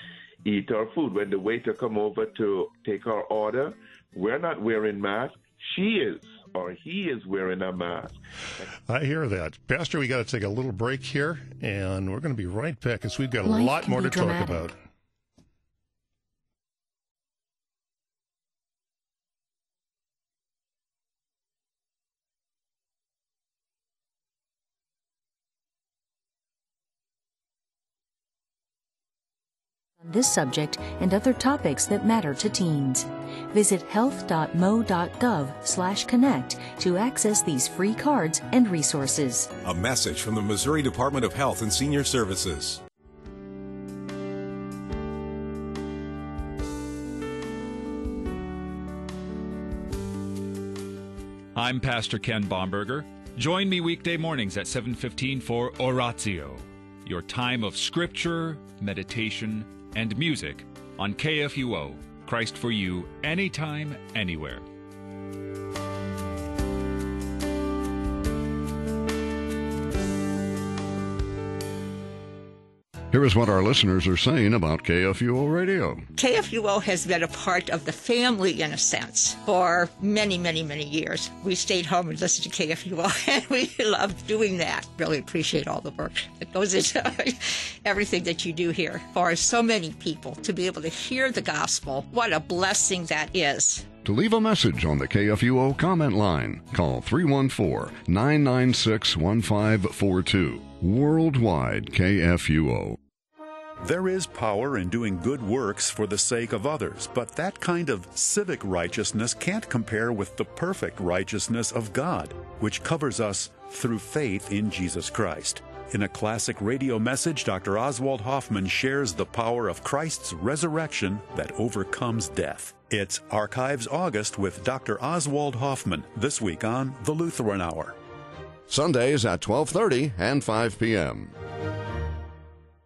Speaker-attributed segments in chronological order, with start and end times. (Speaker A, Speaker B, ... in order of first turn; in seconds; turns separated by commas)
Speaker A: 0.4-8.6, Speaker B: 8.9-14.7, Speaker C: 13.4-14.7, Speaker C: 30.0-39.5, Speaker D: 39.6-42.8, Speaker E: 51.5-64.6, Speaker F: 73.1-76.0, Speaker G: 76.2-93.9, Speaker F: 94.0-103.0, Speaker H: 103.8-128.0, Speaker F: 128.7-131.3